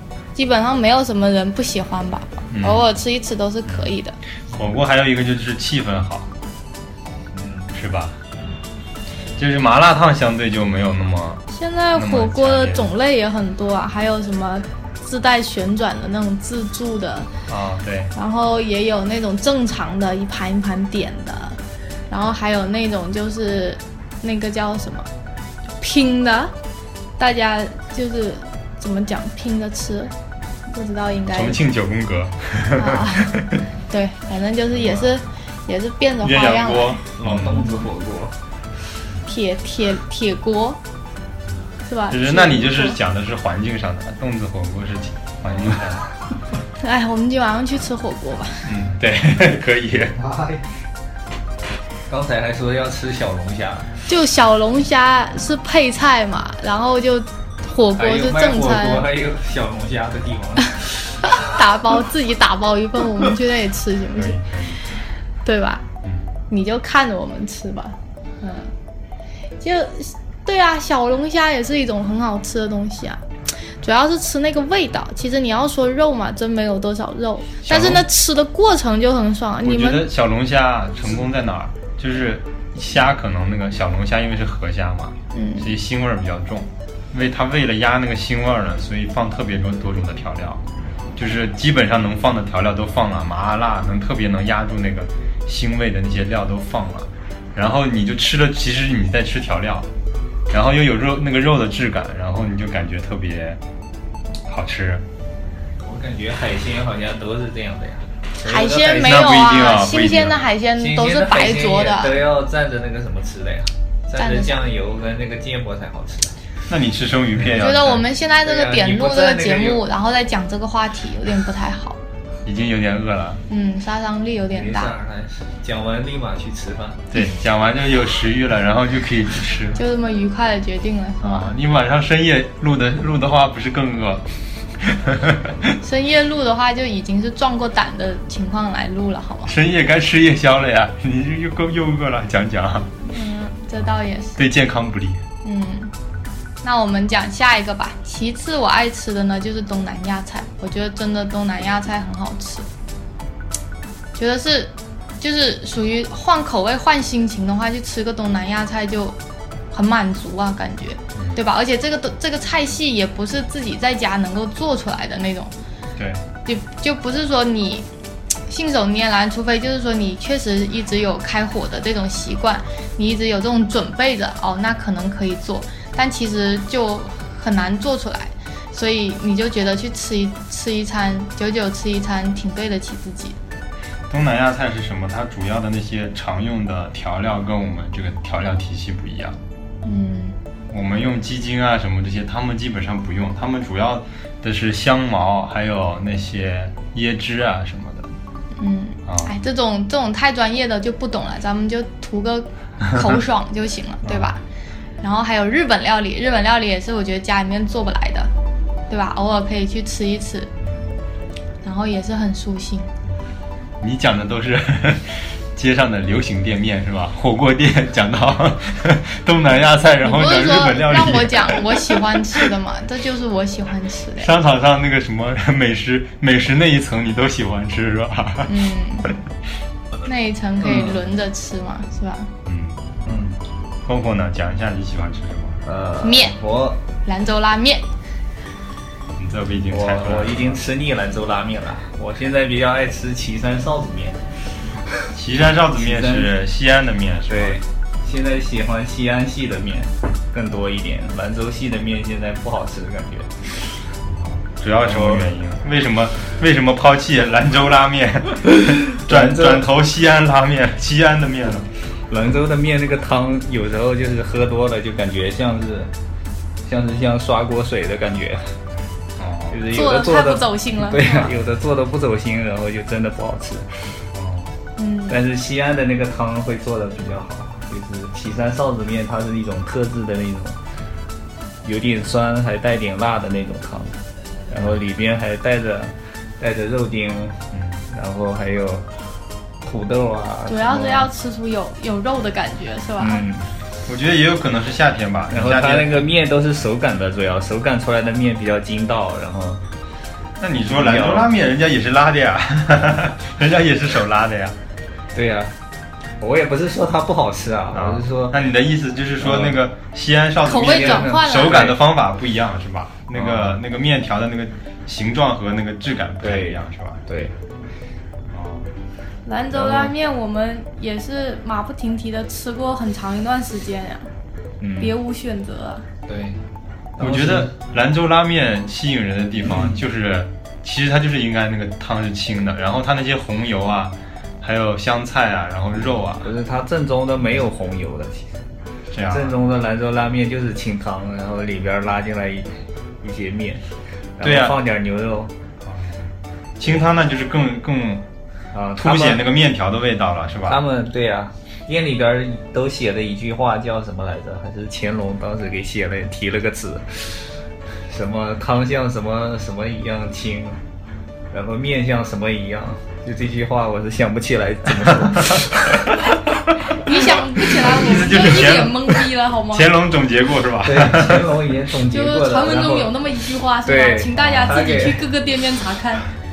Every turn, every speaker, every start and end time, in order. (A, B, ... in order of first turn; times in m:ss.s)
0:00.3-0:04.2 A
0:02.5-0:02.8 B
0:04.5-0:06.3 B
0:07.3-0:07.7 C
0:07.7-0:08.2 B
0:09.4-0:11.4 B
0:11.5-0:17.3 A
0:11.9-0:12.9 B
0:17.5-0:18.1 B
0:18.1-0:21.6 A
0:22.1-0:25.1 A
0:25.8-0:26.5 A
0:27.2-0:30.1 A
0:30.7-0:31.6 A
0:31.3-0:33.6 B
0:32.7-0:37.8 A
0:34.7-0:35.1 B
0:36.2-0:37.6 B
0:37.2-0:38.3 C
0:39.2-0:40.8 A
0:41.8-0:43.0 A
0:42.1-0:46.0 B
0:46.8-0:48.7 A
0:48.6-0:50.2 B
0:50.2-0:50.6 C
0:52.1-0:53.9 C
0:54.0-0:59.1 A
0:58.0-1:01.2 C
1:01.2-1:04.4 A
1:04.2-1:04.8 B
1:05.4-1:05.8 A
1:06.0-1:06.3 B
1:06.5-1:08.7 A
1:09.6-1:20.0 A
1:17.6-1:18.1 B
1:19.6-1:30.6 B
1:25.3-1:25.7 A
1:31.2-1:39.9 B
1:40.5-1:43.6 B
1:44.4-1:45.0 B
1:45.8-1:49.3 C
1:48.4-1:52.1 A
1:49.0-1:50.4 B
1:50.8-1:56.4 C
1:54.2-1:54.6 A
1:56.7-1:58.0 B
1:57.6-2:02.0 A
1:58.4-1:59.8 C
2:02.4-2:03.4 B
2:03.5-2:04.9 A
2:04.5-2:07.0 C
2:07.1-2:09.8 B
2:09.8-2:11.5 A
2:11.2-2:14.3 B
2:14.8-2:15.7 B
2:15.8-2:19.5 A
2:19.4-2:22.9 B
2:23.0-2:24.4 A
2:24.4-2:25.2 B
2:25.4-2:25.9 A
2:26.6-2:32.7 A
2:34.2-2:39.2 A
2:39.7-2:45.5 A
2:46.0-2:46.2 B
2:46.4-2:47.8 A
2:48.5-3:03.4 A
3:04.1-3:09.4 B
3:09.8-3:10.4 A
3:10.7-3:18.1 B
3:18.6-3:24.4 A
3:19.0-3:19.3 B
3:24.0-3:24.3 B
3:25.0-3:28.3 A
3:28.9-3:30.5 A
3:31.6-3:32.9 A
3:33.8-3:42.4 B
3:40.0-3:44.3 A
3:44.2-3:49.1 B
3:48.4-3:49.1 A
3:50.0-3:52.3 A
3:50.6-3:51.0 C
3:52.4-3:53.3 B
3:53.0-3:53.3 C
3:53.8-3:55.6 B
3:55.6-3:56.8 C
3:56.0-3:56.3 A
3:57.0-3:57.8 A
3:59.2-4:00.6 B
3:59.7-4:04.3 C
4:05.1-4:07.6 B
4:05.8-4:06.3 C
4:07.3-4:13.5 C
4:14.2-4:21.7 B
4:14.8-4:15.3 C
4:18.4-4:19.7 C
4:22.1-4:25.9 C
4:26.6-4:28.5 C
4:29.2-4:29.6 B
4:29.5-4:33.8 C
4:29.7-4:31.3 A
4:34.1-4:34.5 B
4:34.8-4:35.2 A
4:35.1-4:40.6 C
4:41.6-4:44.0 C
4:44.5-4:48.9 C
4:47.5-4:47.8 B
4:49.6-4:51.1 C
4:50.5-4:53.2 A
4:53.0-4:53.5 C
4:53.8-4:56.0 B
4:55.3-4:59.6 C
5:00.4-5:04.5 B
5:00.7-5:01.3 C
5:05.1-5:05.5 C
5:06.2-5:08.4 C
5:07.7-5:17.0 B
5:09.2-5:09.6 C
5:10.4-5:11.7 A
5:10.5-5:11.8 C
5:13.1-5:13.6 C
5:16.2-5:17.3 C
5:18.3-5:18.7 B
5:19.2-5:24.1 A
5:19.5-5:19.9 C
5:24.6-5:25.0 C
5:24.8-5:25.8 A
5:26.0-5:26.4 C
5:27.0-5:27.5 C
5:27.0-5:36.3 B
5:29.4-5:29.8 C
5:36.2-5:38.3 C
5:38.9-5:39.4 B
5:39.1-5:43.6 C
5:44.2-5:45.3 C
5:44.2-5:44.6 B
5:45.6-5:46.0 B
5:46.6-5:48.0 B
5:48.5-5:49.2 C
5:48.8-5:50.6 B
5:50.4-5:57.3 C
5:57.9-6:00.6 C
6:01.3-6:06.2 C
6:05.1-6:05.4 B
6:06.7-6:09.7 A
6:07.5-6:11.4 B
6:10.6-6:12.9 C
6:11.9-6:16.1 A
6:13.6-6:15.0 C
6:14.2-6:14.6 B